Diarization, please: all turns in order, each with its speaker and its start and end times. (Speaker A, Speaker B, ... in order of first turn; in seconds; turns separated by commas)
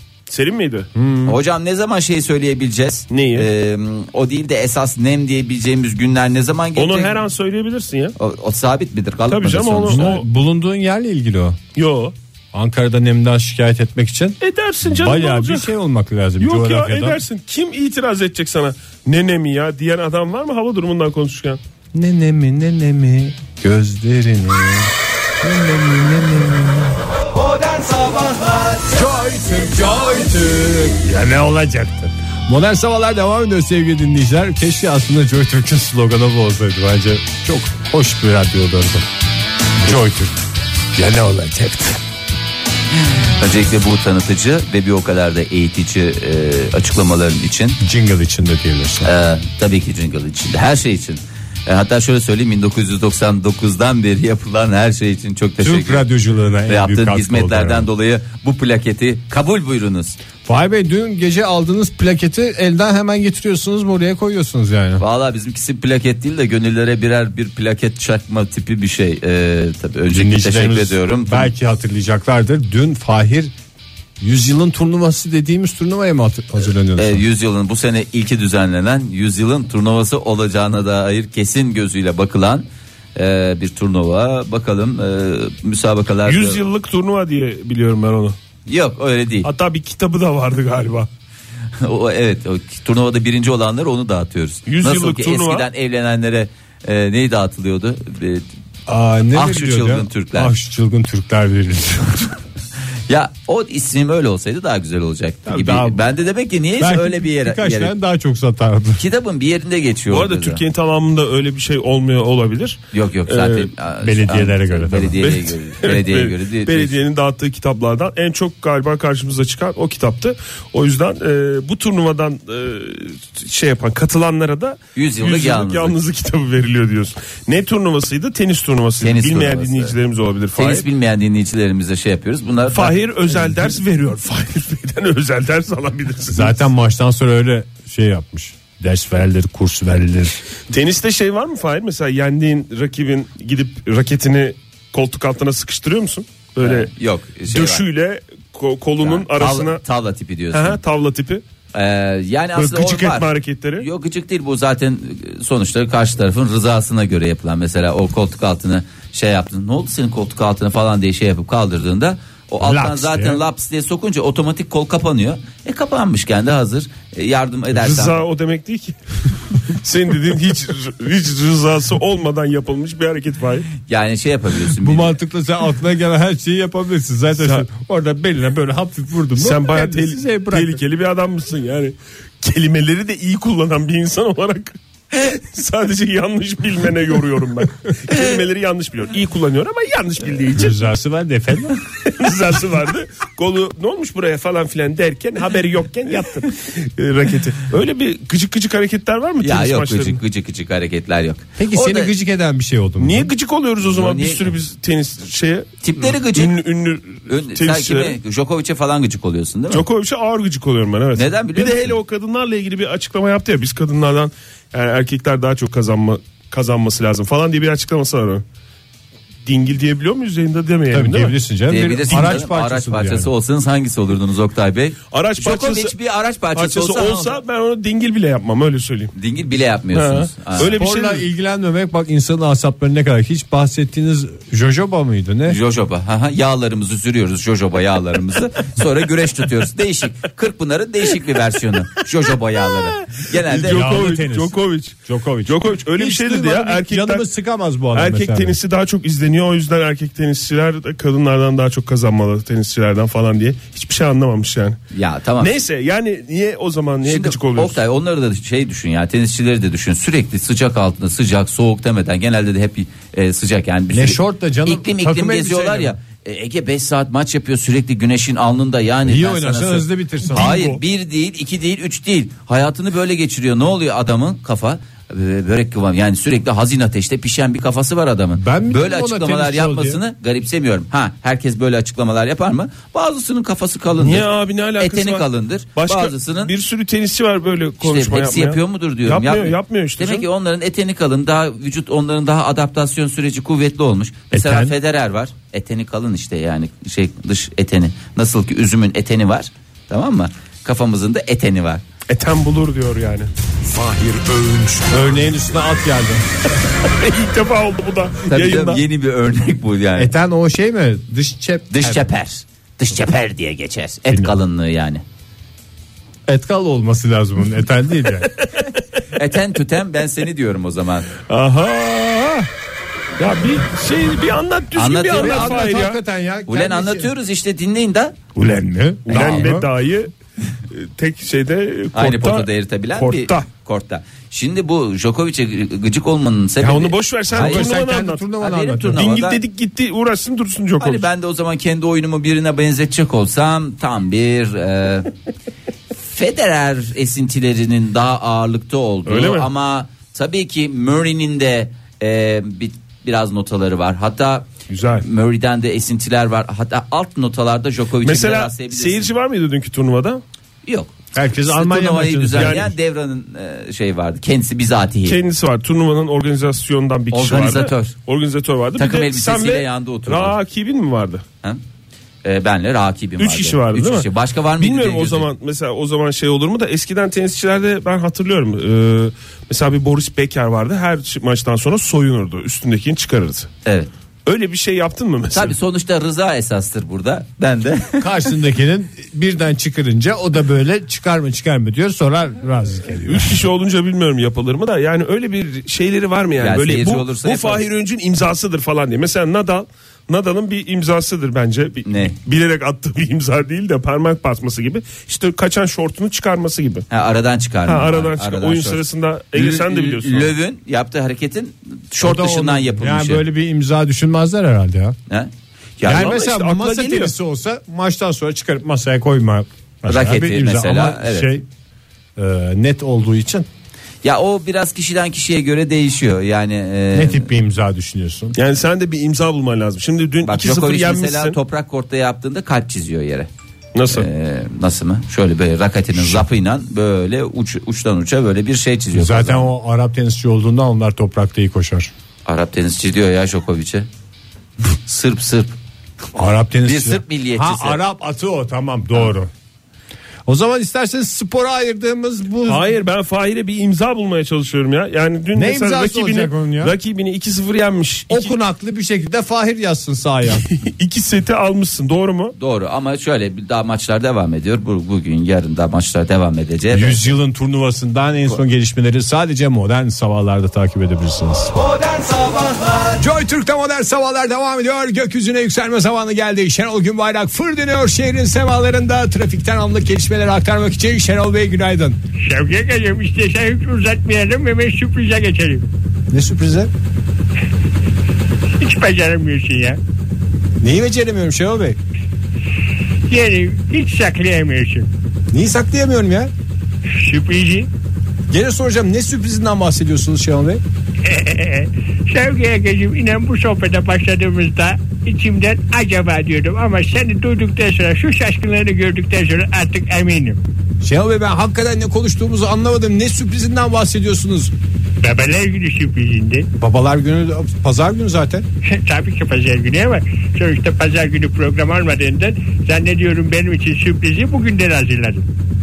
Speaker A: 0.3-0.9, Speaker B: 0.9-1.4, Speaker C: 1.2-7.2, Speaker A: 3.1-3.5, Speaker A: 6.8-8.1, Speaker C: 8.2-10.2, Speaker A: 9.3-10.2, Speaker B: 9.8-11.6, Speaker A: 11.8-12.1, Speaker B: 12.5-17.2, Speaker A: 14.4-15.7, Speaker A: 16.4-21.6, Speaker B: 21.9-27.0, Speaker B: 27.7-39.1, Speaker B: 39.8-40.4, Speaker B: 40.9-42.0, Speaker C: 43.4-47.8, Speaker B: 47.8-49.1, Speaker C: 49.0-56.0, Speaker B: 55.6-57.9, Speaker C: 56.7-60.2, Speaker B: 60.4-65.0, Speaker C: 65.0-71.5, Speaker B: 70.1-73.5, Speaker B: 74.2-77.2, Speaker C: 77.0-86.6, Speaker A: 86.2-88.3, Speaker C: 88.7-89.5, Speaker A: 89.4-91.1, Speaker C: 91.8-98.4, Speaker A: 94.7-95.7, Speaker B: 98.9-102.3, Speaker C: 99.3-100.5, Speaker C: 103.1-107.9, Speaker B: 105.5-106.0, Speaker B: 106.8-109.0, Speaker C: 109.0-110.6, Speaker A: 110.1-113.7, Speaker C: 112.9-116.9, Speaker B: 114.0-115.3, Speaker A: 115.2-130.8, Speaker C: 124.9-126.0, Speaker C: 129.0-129.9, Speaker C: 130.6-133.8, Speaker A: 132.7-136.6, Speaker B: 136.3-140.4, Speaker A: 140.7-146.9, Speaker C: 146.6-147.8, Speaker A: 147.5-149.8, Speaker C: 149.0-150.8, Speaker A: 150.5-151.4, Speaker C: 151.7-168.2, Speaker A: 152.6-153.9, Speaker B: 162.6-163.4, Speaker A: 167.7-168.9, Speaker A: 169.7-173.7, Speaker C: 173.8-175.1, Speaker B: 174.8-180.8, Speaker A: 177.3-177.7, Speaker A: 179.3-190.8, Speaker B: 190.5-191.8, Speaker A: 192.0-200.2, Speaker C: 199.4-202.1, Speaker B: 201.6-203.3, Speaker A: 203.0-208.2, Speaker C: 203.8-204.4, Speaker C: 205.8-206.6, Speaker C: 207.3-209.8, Speaker A: 209.7-218.4, Speaker C: 211.1-211.9, Speaker A: 219.4-221.3, Speaker B: 220.9-223.3, Speaker C: 221.7-227.4, Speaker A: 225.1-225.9, Speaker A: 226.5-229.1, Speaker C: 229.1-230.8, Speaker A: 229.9-231.2, Speaker B: 230.6-235.6, Speaker C: 235.4-244.2, Speaker A: 243.5-247.2, Speaker B: 243.5-248.6, Speaker A: 247.9-254.8, Speaker C: 254.9-255.5, Speaker A: 255.4-257.8, Speaker C: 257.1-286.5, Speaker B: 263.9-265.9, Speaker B: 269.1-270.8, Speaker B: 278.4-280.0, Speaker A: 284.0-285.2, Speaker A: 285.8-290.3, Speaker C: 287.8-301.8, Speaker B: 294.3-294.7, Speaker A: 302.1-303.3, Speaker B: 303.7-304.2, Speaker B: 304.8-306.2, Speaker A: 306.9-308.8, Speaker C: 308.3-310.1, Speaker B: 310.0-312.0, Speaker C: 311.7-315.0, Speaker B: 314.1-314.4, Speaker B: 316.3-318.3, Speaker C: 319.1-321.1, Speaker A: 321.3-322.5, Speaker A: 323.2-326.0, Speaker C: 324.7-325.7, Speaker B: 325.1-327.1, Speaker C: 326.5-328.2, Speaker B: 328.3-329.7, Speaker A: 329.1-330.1, Speaker C: 329.1-329.5, Speaker A: 330.7-333.4, Speaker C: 331.9-337.9, Speaker A: 336.6-338.2, Speaker B: 337.3-339.1, Speaker C: 338.4-339.4, Speaker A: 338.9-341.1, Speaker C: 340.8-345.1, Speaker C: 346.1-354.5, Speaker A: 349.1-349.5, Speaker A: 354.7-355.1, Speaker C: 355.0-359.1, Speaker A: 358.0-360.2, Speaker C: 360.6-360.9, Speaker B: 361.1-362.7, Speaker C: 361.4-365.2, Speaker A: 362.3-362.7, Speaker A: 365.1-371.2, Speaker C: 367.1-367.9, Speaker C: 368.8-370.4, Speaker C: 372.2-375.3, Speaker A: 373.2-374.1, Speaker A: 374.6-383.5, Speaker C: 383.6-383.9, Speaker A: 384.2-385.5, Speaker C: 385.3-388.1, Speaker B: 388.0-393.4, Speaker A: 393.1-406.9, Speaker C: 396.4-397.6, Speaker C: 401.9-402.1, Speaker C: 406.9-413.2, Speaker A: 407.6-410.3, Speaker B: 412.0-415.0, Speaker C: 415.1-416.2, Speaker B: 415.8-421.5, Speaker A: 415.9-417.1, Speaker C: 419.9-421.3, Speaker B: 422.1-423.5, Speaker C: 424.0-427.3, Speaker B: 426.9-428.3, Speaker A: 428.3-431.4, Speaker C: 430.2-433.3, Speaker A: 433.7-434.1, Speaker C: 433.9-439.5, Speaker B: 435.9-436.2, Speaker B: 438.9-441.9, Speaker C: 442.2-443.9, Speaker C: 444.7-445.5, Speaker B: 446.1-449.3, Speaker C: 446.6-447.8, Speaker B: 450.2-452.7, Speaker A: 452.5-458.3, Speaker B: 455.3-456.8, Speaker B: 458.1-460.5, Speaker A: 460.6-462.3, Speaker C: 462.4-467.1, Speaker B: 466.7-471.5, Speaker B: 473.0-482.0, Speaker D: 482.2-485.7, Speaker B: 486.1-486.7, Speaker D: 488.6-489.8, Speaker B: 490.6-491.8, Speaker D: 493.1-494.9, Speaker B: 495.3-496.3, Speaker D: 496.9-497.7, Speaker B: 498.3-500.6, Speaker D: 501.0-510.4, Speaker B: 510.8-514.5, Speaker D: 515.0-516.5, Speaker B: 516.6-518.4, Speaker D: 518.6-525.3